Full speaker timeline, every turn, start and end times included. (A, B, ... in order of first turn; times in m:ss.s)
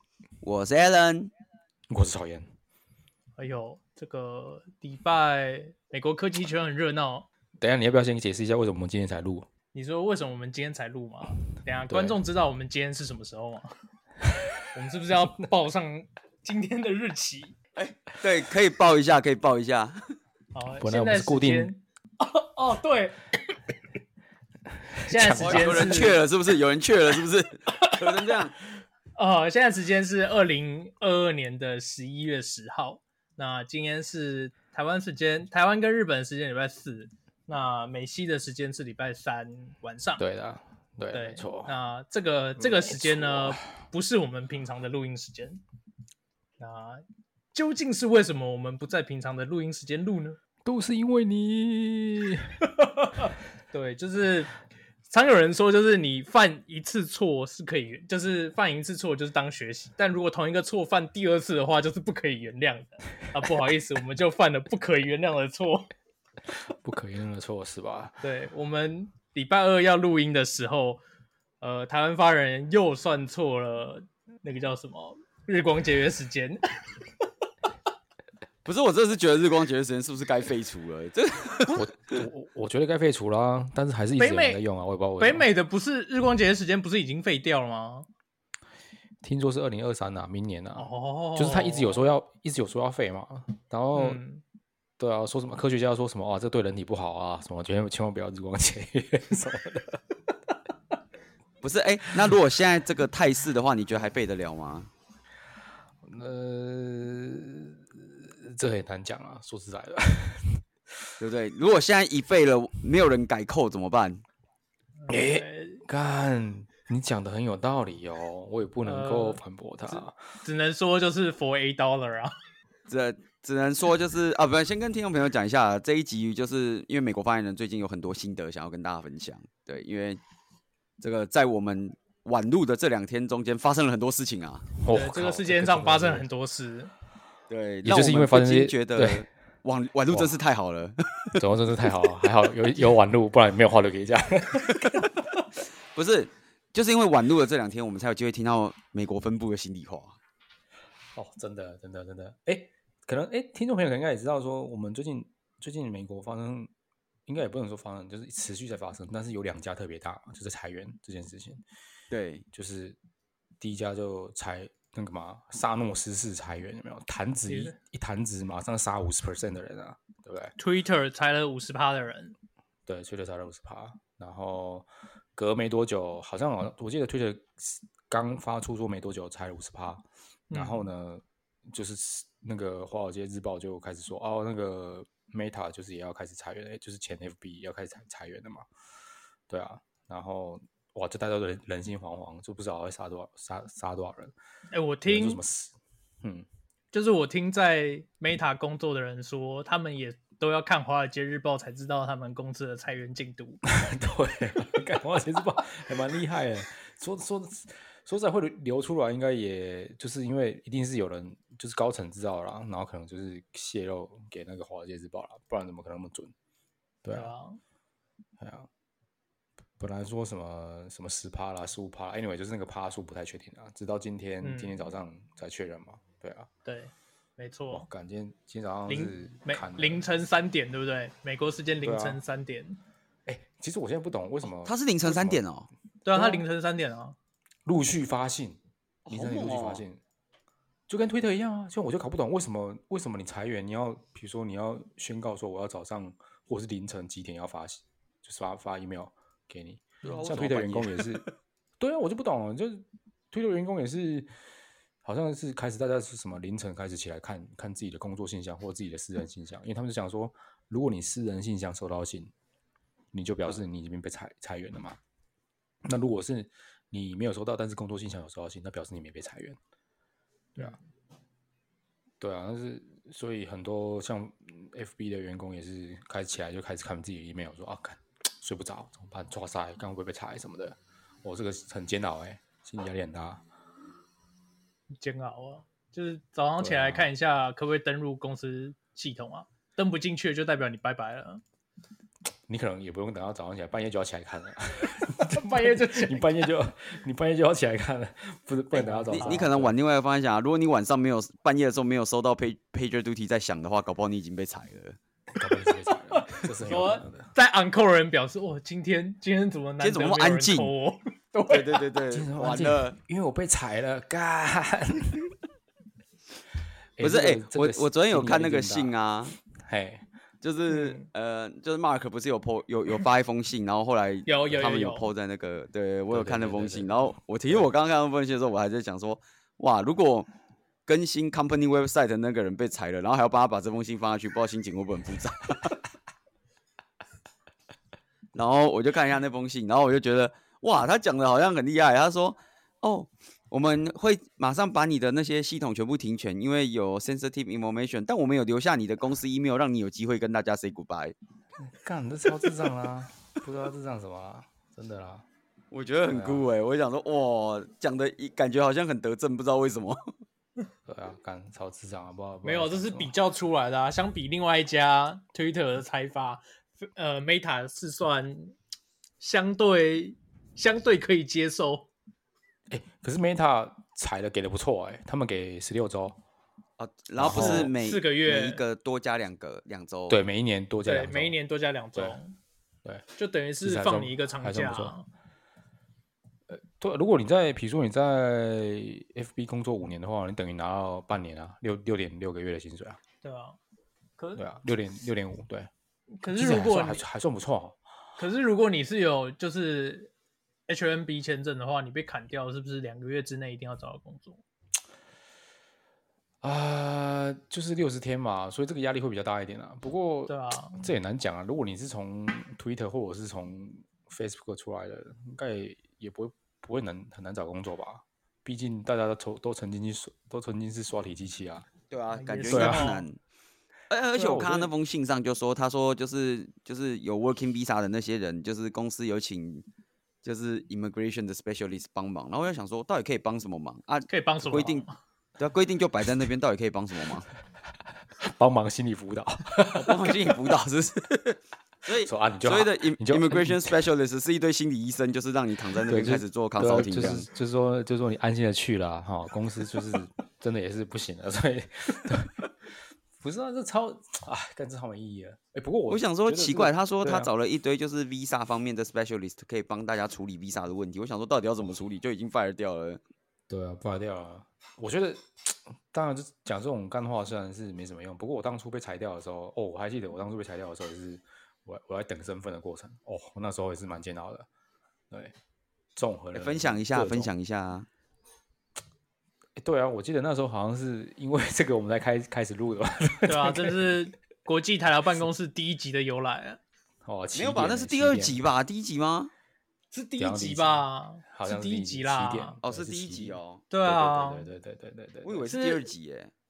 0:00.4-0:01.3 A
0:01.9-0:02.5 B
0:03.4-0:07.3 C
0:07.6-0:09.5 B
0:09.7-0:13.7 C
0:11.9-0:12.2 B
0:14.7-0:17.6 C
0:17.8-0:20.1 A
0:20.5-0:23.6 C
0:20.8-0:21.7 B
0:24.8-0:26.1 B
0:25.1-0:26.2 C
0:25.4-0:28.6 A
0:27.8-0:28.4 C
0:29.2-0:40.2 C
0:40.2-0:41.7 B
0:41.1-0:45.6 C
0:42.6-0:43.6 B
0:46.6-0:50.4 C
0:50.6-0:52.5 B
0:52.8-0:54.5 C
0:55.1-1:05.9 C
1:06.7-1:08.2 B
1:08.2-1:11.0 C
1:11.6-1:17.0 C
1:18.6-1:22.2 A
1:21.7-1:25.5 B
1:24.2-1:24.6 C
1:25.2-1:28.1 C
1:29.2-1:34.2 B
1:30.8-1:32.0 C
1:34.0-1:34.4 C
1:35.0-1:40.0 B
1:41.6-1:44.9 A
1:46.0-1:50.6 B
1:51.2-1:54.2 A
1:55.0-1:55.8 C
1:55.1-2:00.2 B
1:58.8-2:02.4 C
2:02.9-2:10.2 A
2:11.0-2:14.7 A
2:14.8-2:16.2 B
2:14.9-2:16.9 C
2:17.5-2:21.4 A
2:17.8-2:19.3 B
2:20.1-2:20.4 B
2:21.4-2:25.1 B
2:21.9-2:22.3 A
2:24.7-2:25.0 A
2:26.0-2:30.2 A
2:31.2-2:36.7 B
2:37.3-2:41.6 B
2:42.1-2:42.4 A
2:42.5-2:43.0 B
2:43.6-2:50.6 B
2:47.5-2:47.8 C
2:50.6-2:52.4 C
2:52.9-3:08.7 B
3:00.5-3:00.9 C
3:09.5-3:14.3 B
3:14.7-3:15.4 C
3:15.0-3:16.5 B
3:16.9-3:23.7 C
3:23.8-3:36.3 B
3:37.0-3:37.3 B
3:37.1-3:37.6 C
3:38.4-3:38.7 B
3:39.8-3:46.5 B
3:44.4-3:44.7 C
3:46.6-3:47.9 C
3:47.7-3:50.0 B
3:48.9-3:52.8 C
3:51.8-3:52.2 B
3:53.3-3:55.4 B
3:54.6-3:55.7 A
3:56.0-3:57.2 C
3:56.1-3:56.4 B
3:57.6-3:58.6 B
3:59.1-3:59.8 A
3:59.1-4:00.0 B
4:00.9-4:11.2 B
4:10.0-4:11.3 A
4:11.8-4:14.3 B
4:15.0-4:22.3 B
4:23.1-4:25.0 B
4:25.8-4:29.6 B
4:32.2-4:43.4 B
4:45.0-4:51.4 C
4:46.6-4:47.1 B
4:52.5-4:59.8 B
4:55.2-4:56.5 C
4:58.7-4:59.5 C
4:59.1-5:05.0 A
5:05.4-5:07.3 B
5:06.1-5:11.9 C
5:09.8-5:10.7 A
5:11.5-5:13.0 A
5:12.1-5:15.3 B
5:17.0-5:20.1 B
5:17.0-5:19.4 A
5:20.4-5:30.3 A
5:20.7-5:21.1 C
5:24.3-5:25.1 C
5:26.1-5:27.6 B
5:30.9-5:35.8 A
5:38.3-5:51.2 A
5:51.6-5:55.2 B
5:55.7-6:00.1 A
5:56.1-5:56.5 B
6:00.9-6:03.1 B
6:02.4-6:08.6 C
6:09.2-6:11.9 C
6:12.7-6:16.2 B
6:16.8-6:20.2 A
6:17.2-6:17.7 B
6:17.3-6:18.6 C
6:20.1-6:21.4 B
6:20.8-6:22.4 C
6:23.2-6:25.1 C
6:23.6-6:25.0 B
6:26.5-6:33.0 B
6:33.2-6:33.6 C
6:34.4-6:35.7 B
6:36.2-6:37.0 C
6:36.3-6:37.8 B
6:38.2-6:40.1 C
6:40.7-6:44.4 C
6:46.4-7:01.7 B
6:50.3-6:50.9 C
7:01.9-7:03.2 A
7:02.1-7:03.1 C
7:02.5-7:02.9 B
7:03.9-7:09.6 A
7:04.1-7:04.7 B
7:10.2-7:14.8 A
7:14.1-7:15.0 C
7:15.4-7:17.3 A
7:18.2-7:20.4 B
7:19.7-7:27.3 A
7:22.0-7:23.8 B
7:25.9-7:32.5 B
7:33.2-7:37.3 B
7:35.9-7:43.0 A
7:43.5-7:54.5 B
7:56.0-7:57.3 B
7:56.3-7:57.9 A
7:59.6-8:04.0 B
8:03.3-8:06.6 C
8:07.0-8:08.4 B
8:07.3-8:09.3 A
8:09.9-8:12.6 C
8:10.2-8:15.5 B
8:12.6-8:13.6 A
8:13.7-8:14.5 C
8:15.2-8:16.3 A
8:15.5-8:15.9 C